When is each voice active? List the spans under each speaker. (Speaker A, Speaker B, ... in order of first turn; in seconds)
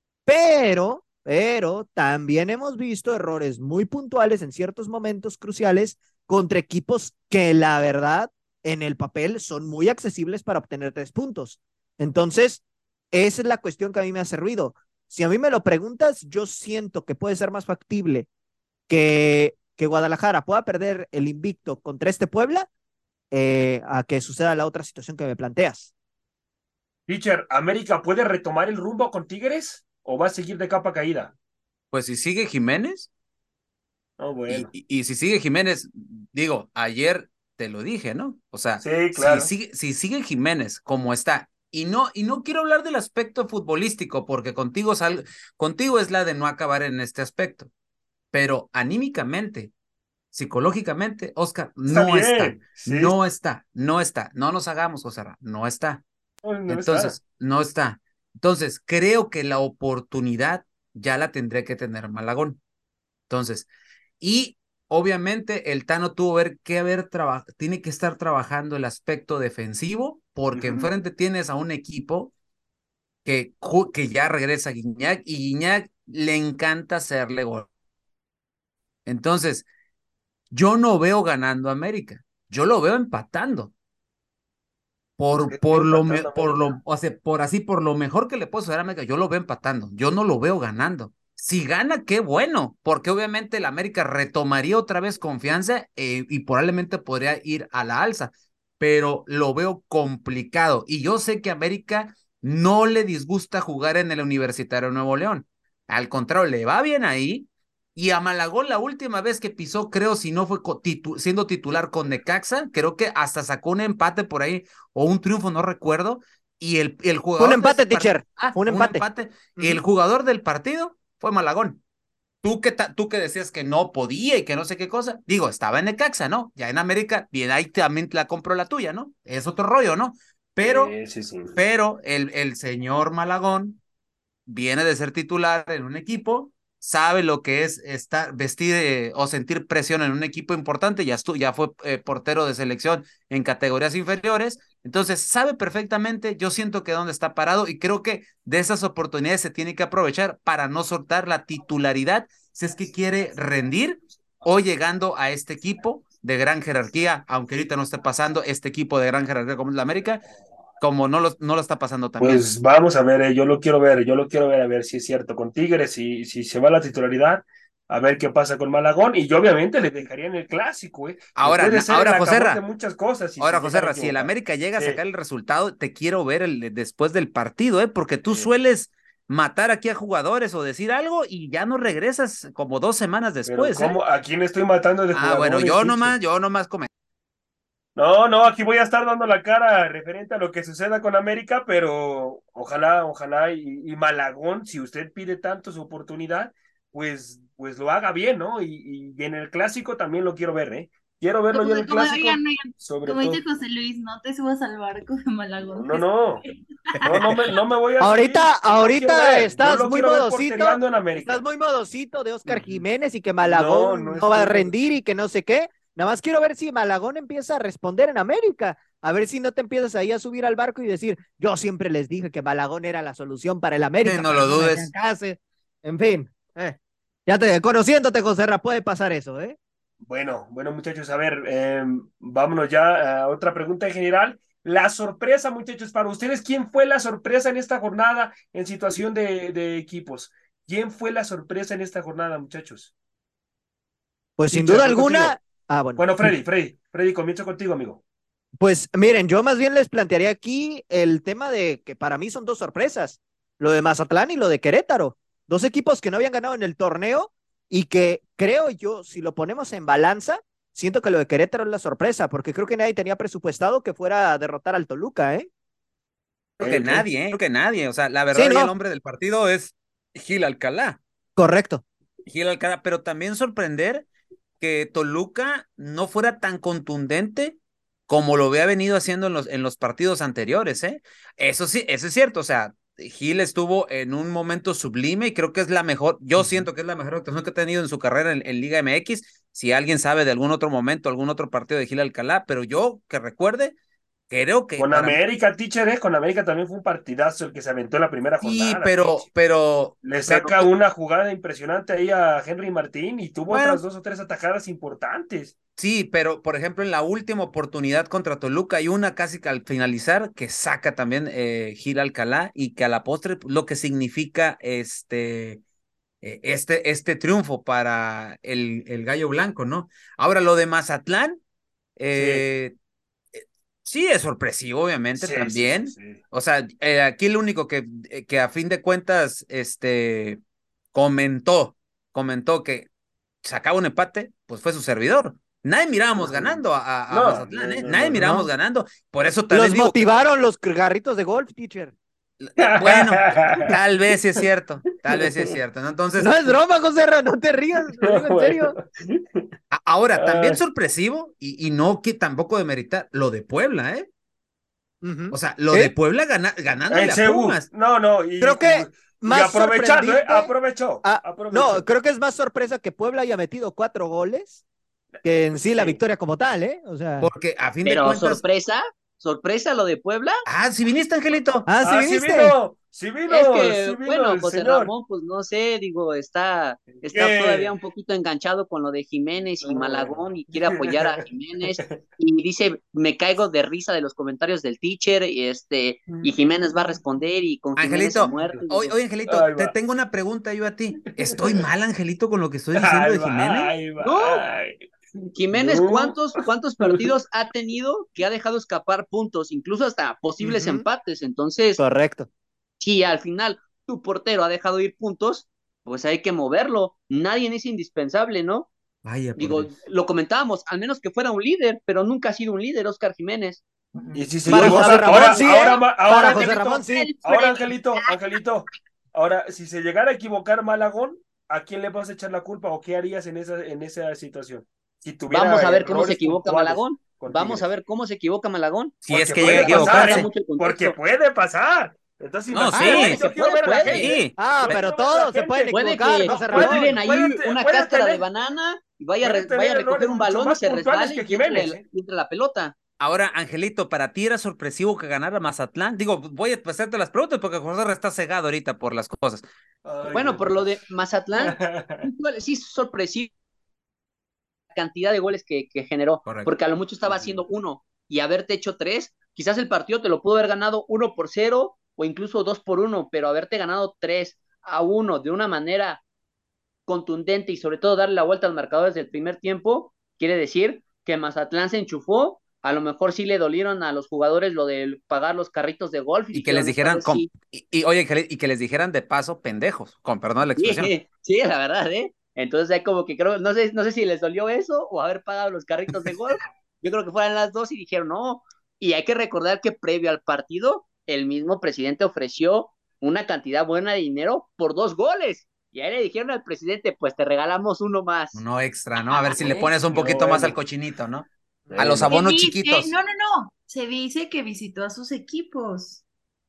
Speaker A: 0.3-18.3, 18.9-22.7, 23.3-25.9, 117.4-119.0, 119.6-119.8, 208.0-229.6, 244.4-246.3, 248.6-265.5, 268.3-268.7, 271.4-271.8, 338.1-338.5, 339.5-341.9, 346.2-348.8, 355.0-355.9, 358.4-360.5, 361.0-364.6, 365.2-367.3, 371.7-372.5, 400.4-400.9, 401.8-402.3, 414.5-417.1, 434.4-436.9
Speaker B: 27.1-31.3, 34.2-34.7, 38.8-39.5, 51.9-53.1, 56.4-57.1, 70.5-70.9, 85.3-86.8, 130.6-131.6, 162.2-175.0, 183.5-186.2, 188.0-203.4, 205.7-206.4, 207.0-211.4, 212.5-212.8, 213.4-214.8, 230.1-242.9, 244.5-245.3, 246.0-248.0, 266.6-267.1, 294.8-299.3, 300.0-305.5, 322.1-322.4, 325.2-326.2, 336.2-338.3, 342.6-343.8, 348.0-349.5, 350.2-350.6, 356.9-361.9, 365.7-366.0, 371.8-374.9, 376.9-377.7, 379.6-382.0, 386.1-387.0, 388.2-388.7, 389.3-389.7, 391.1-391.5, 392.8-396.3, 396.8-397.1, 414.1-427.7, 429.1-438.2, 439.2-441.8, 449.9-450.8, 451.3-452.1, 457.1-457.4, 499.4-500.6, 501.7-502.1
Speaker C: 31.9-33.1, 34.5-47.7, 48.3-49.7, 50.3-56.0, 56.7-62.6, 63.3-63.7, 64.2-72.3, 73.2-77.7, 79.1-79.7, 80.5-83.7, 85.2-121.8, 122.4-130.9, 131.6-133.8, 134.5-160.2, 160.8-162.4, 171.4-172.6, 173.4-184.0, 185.1-186.9, 224.1-224.9, 266.6-271.0, 272.3-274.1, 274.6-293.7, 294.3-295.2, 298.4-300.7, 303.5-303.8, 305.8-315.6, 316.2-321.4, 322.0-322.7, 323.4-330.4, 330.9-332.9, 333.4-340.0, 342.4-346.6, 349.7-354.1, 355.3-357.7, 367.2-368.4, 370.5-371.7, 387.8-393.8, 409.0-409.7, 429.1-430.3, 432.5-433.2, 433.9-434.8, 443.0-449.4, 456.2-456.5, 476.3-480.9, 498.4-502.9
Speaker D: 201.5-207.0, 415.4-418.4, 499.1-499.7, 502.0-506.0
Speaker E: 367.8-370.4, 373.3-388.9, 394.0-394.4, 395.4-401.8, 402.8-408.7, 409.4-413.6, 414.4-415.4, 425.3-431.0, 432.7-434.2, 435.7-442.7, 450.1-453.3, 454.7-466.0, 466.9-477.3, 480.6-498.4